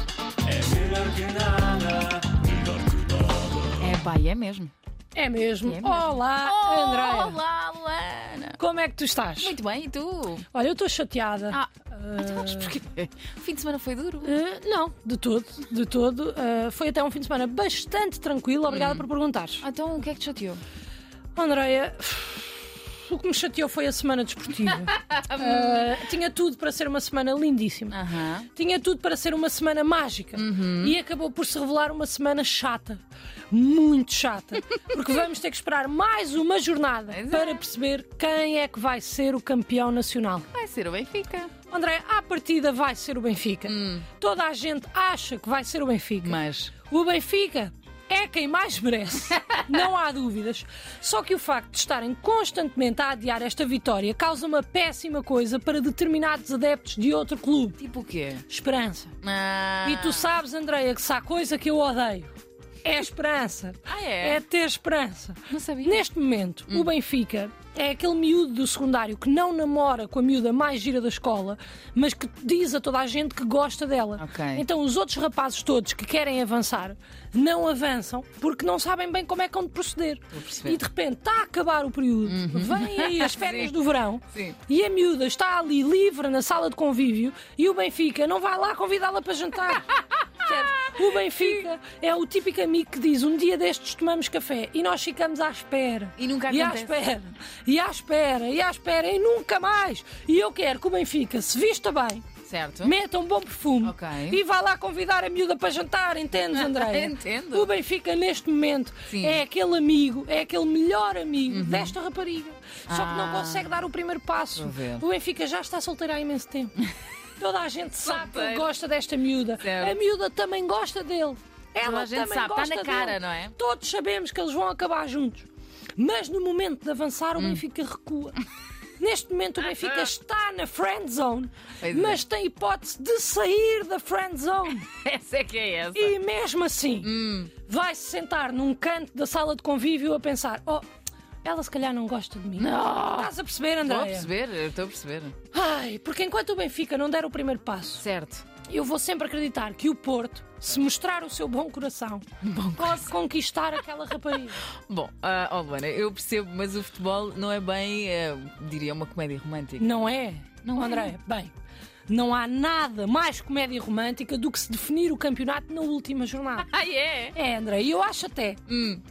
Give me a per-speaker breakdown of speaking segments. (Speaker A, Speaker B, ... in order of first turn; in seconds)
Speaker A: 0.5-3.4
Speaker B: 3.8-4.7, 5.6-8.6, 9.4-10.5, 11.5-14.3, 18.7-19.1, 19.6-20.6, 24.9-26.0, 27.9-28.5, 30.3-31.0, 37.1-37.6, 40.5-41.5, 43.6-44.1, 46.2-46.7, 57.8-58.4, 59.2-60.3, 63.9-64.4, 65.5-66.0, 74.2-74.6, 80.3-80.8, 82.2-83.8, 84.3-84.6, 96.2-97.0, 102.4-103.0, 103.8-104.4, 106.5-107.7, 109.1-109.4, 111.5-111.9, 112.9-113.8, 114.5-115.0, 118.0-118.7, 119.6-120.0, 121.8-123.5, 127.4-127.6, 131.8-132.2, 134.8-136.2, 137.0-137.5, 142.6-145.3, 148.0-148.4, 152.4-153.1, 154.6-160.0, 160.6-161.1, 166.6-167.3, 168.7-169.0
Speaker C: 5.1-7.4, 8.6-9.6, 10.5-12.7, 14.2-19.6, 21.4-28.0, 28.5-40.5, 41.7-57.8, 58.5-59.1, 59.8-62.3, 62.8-102.3, 102.8-116.8, 117.4-128.4, 129.0-134.9, 135.9-140.8, 141.4-144.3, 145.5-148.0, 148.6-154.6, 159.8-161.5, 162.1-166.7, 167.3-168.7